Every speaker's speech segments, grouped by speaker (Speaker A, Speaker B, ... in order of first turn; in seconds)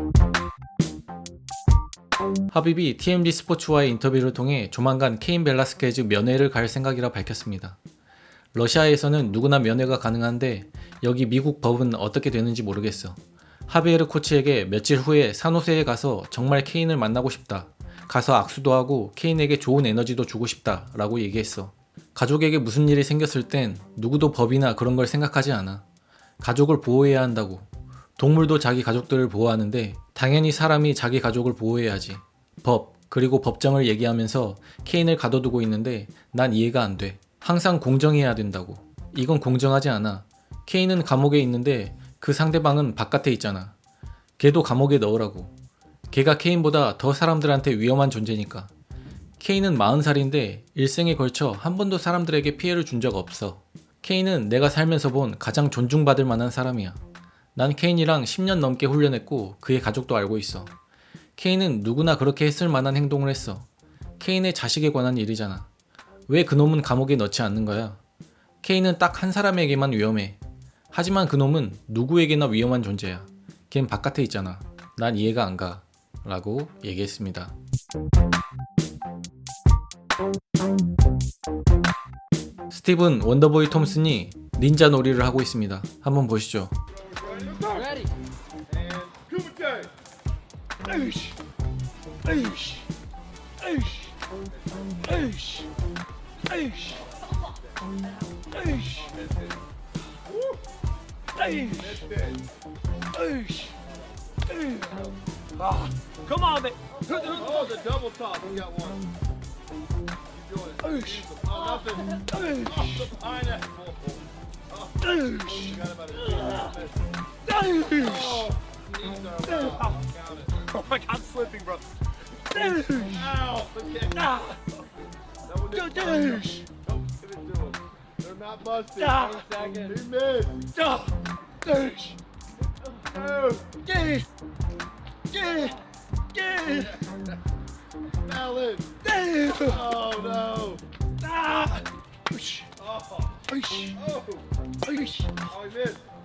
Speaker A: 2.5-7.8, 8.5-25.8, 26.4-43.7, 44.4-45.5, 46.1-48.7, 49.4-57.0, 57.5-60.7, 61.4-63.7, 64.2-65.7, 66.3-68.0, 68.6-70.4, 70.9-77.5, 82.7-86.7
Speaker B: 86.9-88.0, 88.7-89.9, 94.7-95.0, 98.9-99.6, 101.6-102.4, 107.1-109.0, 110.3-117.1, 117.9-120.5, 123.0-124.3, 125.5-130.7, 133.0-133.8, 138.2-138.9, 139.5-140.8, 142.8-144.4, 145.4-146.0
Speaker C: 87.7-88.1, 90.8-91.3, 92.2-92.8, 93.6-94.1, 95.0-95.7, 96.5-97.0, 98.4-99.1, 101.3-102.0, 103.1-103.7, 104.5-105.0, 105.6-107.8, 110.8-113.1, 115.0-116.8, 117.4-118.5, 119.4-120.0, 120.5-121.8, 122.5-123.4, 124.1-124.6, 125.7-126.6, 129.0-129.9, 130.7-132.2, 133.8-134.3, 135.3-135.8, 136.3-137.0, 139.0-139.9, 141.2-142.7, 143.5-144.0, 144.8-145.5